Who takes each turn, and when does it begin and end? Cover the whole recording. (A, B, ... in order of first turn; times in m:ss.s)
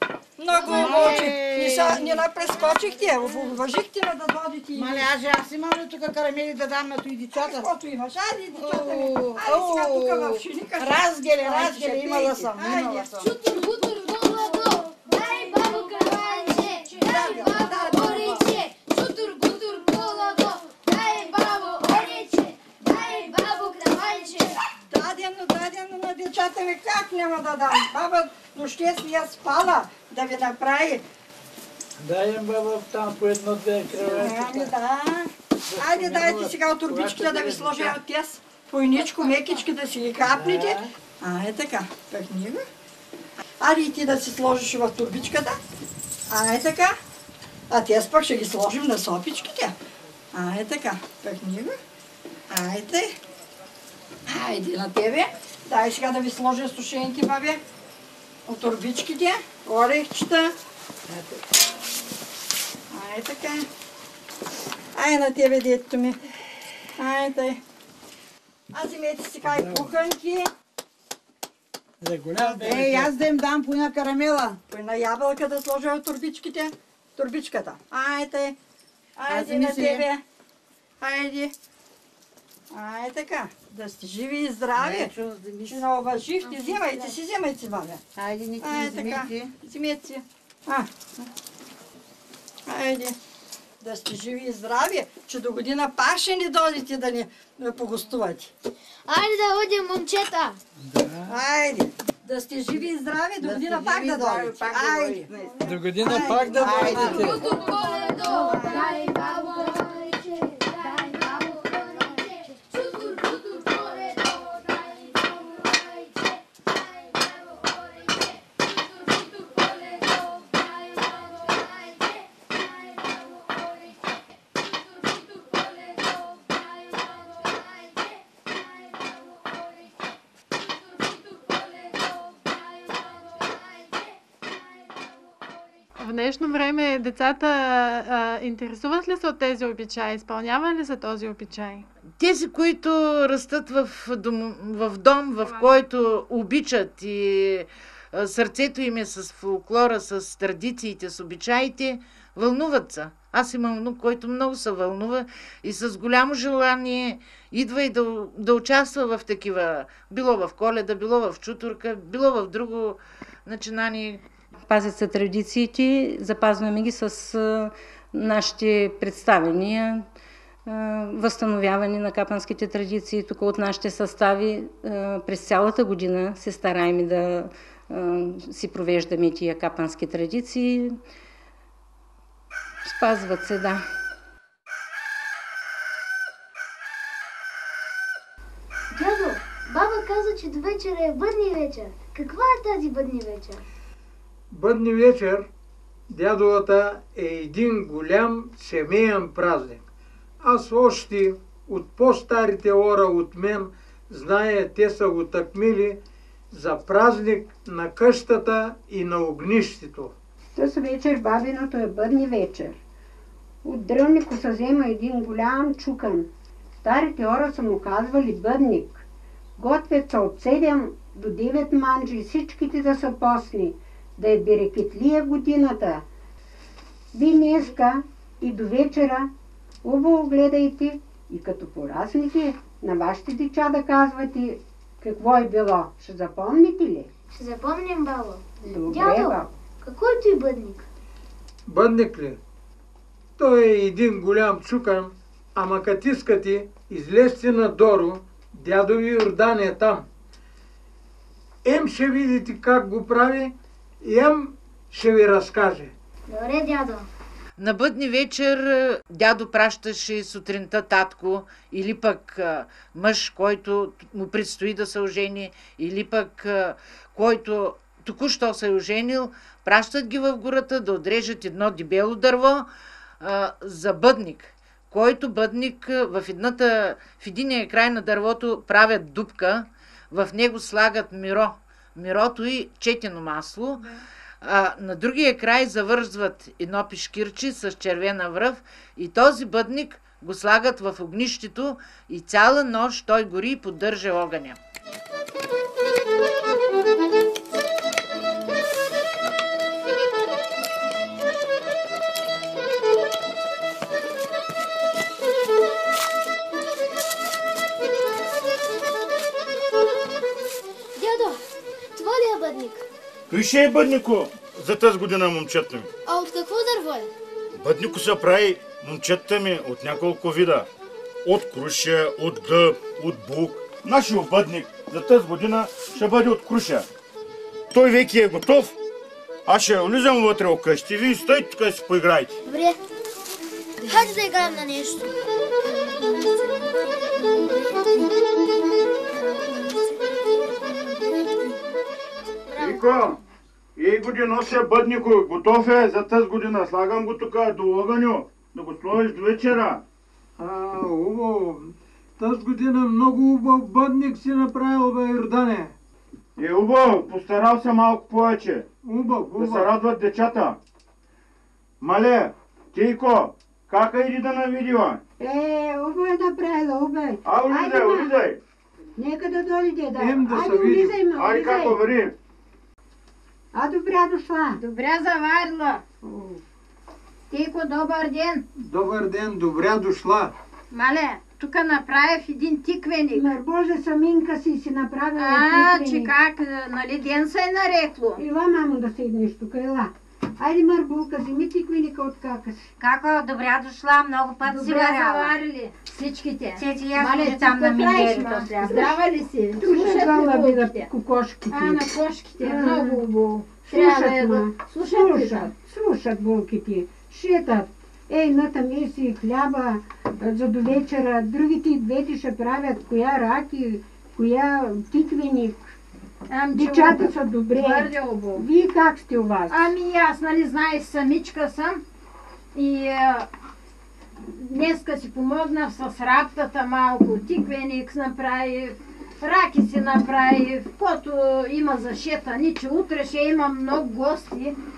0:00.4-0:05.1 A
0:00.5-0:02.7 B
0:04.7-0:07.7 B
0:07.3-0:13.1 A
0:08.5-0:13.3 B
0:13.1-0:24.6 C
0:15.7-0:18.5 A
0:24.9-0:31.0 A
0:32.0-0:34.7 D
0:33.9-0:42.6 A
0:35.7-0:38.0 D
0:40.2-0:40.9 D
0:43.6-0:45.6 A
0:46.3-0:47.0 A
0:47.7-0:49.7 A
0:50.3-0:51.8 A
0:52.5-0:53.1 A
0:54.3-0:57.6 A
0:58.4-1:00.5 A
1:01.1-1:01.3 D
1:02.9-1:03.7 A
1:04.9-1:06.2 A
1:07.0-1:07.6 A
1:08.7-1:10.5 A
1:09.4-1:09.9 D
1:12.0-1:13.1 D
1:12.3-1:14.6 B
1:14.7-1:18.6 A
1:19.2-1:20.2 A
1:19.3-1:20.1 B
1:21.0-1:21.5 A
1:22.7-1:25.1 A
1:24.8-1:25.9 B
1:25.7-1:28.0 A
1:26.4-1:27.1 B
1:28.1-1:29.5 B
1:28.6-1:31.1 A
1:32.7-1:33.2 A
1:33.8-1:38.5 A
1:39.0-1:40.6 C
1:40.8-1:41.4 D
1:41.3-1:45.2 A
1:43.4-1:47.5 B
1:45.6-1:47.4 D
1:46.0-1:47.4 A
1:47.1-1:56.2 C
1:48.2-1:49.0 B
1:57.2-2:02.1 C
2:16.0-2:21.8 E
2:22.2-2:44.2 F
2:25.5-2:25.8 E
2:44.7-2:50.0 G
2:50.6-3:01.0 G
3:02.8-3:03.8 G
3:08.9-3:13.6 C
3:14.5-3:15.4 H
3:16.1-3:19.8 H
3:20.4-3:30.1 H
3:30.5-3:32.8 I
3:33.6-3:36.3 I
3:36.8-3:39.0 I
3:39.6-3:46.0 I
3:47.1-3:49.3 I
3:49.8-3:57.1 I
3:57.3-4:00.8 C
3:58.6-3:59.5 I
4:01.6-4:02.4 H
4:03.4-4:10.1 H
4:11.6-4:15.9 H
4:16.3-4:17.1 C
4:17.6-4:32.7 F
4:33.2-4:43.9 F
4:44.4-4:54.6 F
5:11.0-5:11.4 C
5:11.9-5:12.8 C
5:13.3-5:15.9 J
5:16.0-5:17.1 C
5:17.6-5:20.7 J
5:21.2-5:26.9 J
5:27.7-5:28.7 J
5:29.4-5:32.4 J
5:32.4-5:32.8 C
5:33.8-5:36.7 C
5:37.3-5:37.9 C
5:39.1-5:41.3 C
5:42.5-5:42.8 C
5:42.6-5:43.2 J
5:43.8-5:49.8 J
5:50.4-5:55.8 H
5:56.4-5:58.7 J
5:58.8-5:59.7 H
5:59.4-6:00.6 J
6:01.8-6:05.0 J
6:05.2-6:08.1 I
6:07.2-6:08.4 J
6:09.0-6:11.8 I
6:10.0-6:11.0 H
6:11.1-6:12.1 J
6:13.5-6:14.6 I
6:14.6-6:15.8 K
6:16.0-6:16.4 I
6:17.3-6:18.4 K
6:18.6-6:20.3 H
6:20.7-6:23.3 K
6:23.1-6:26.1 I
6:25.2-6:28.2 K
6:28.2-6:32.7 I
6:32.8-6:35.4 L
6:34.4-6:40.9 K
6:36.6-6:38.7 L
6:38.6-6:39.0 I
6:39.6-6:43.0 I
6:41.5-6:45.5 K
6:43.6-6:55.8 I
6:56.3-6:58.4 K
6:56.5-6:59.7 I
6:59.5-7:01.8 K
7:02.5-7:03.3 K
7:04.3-7:14.6 K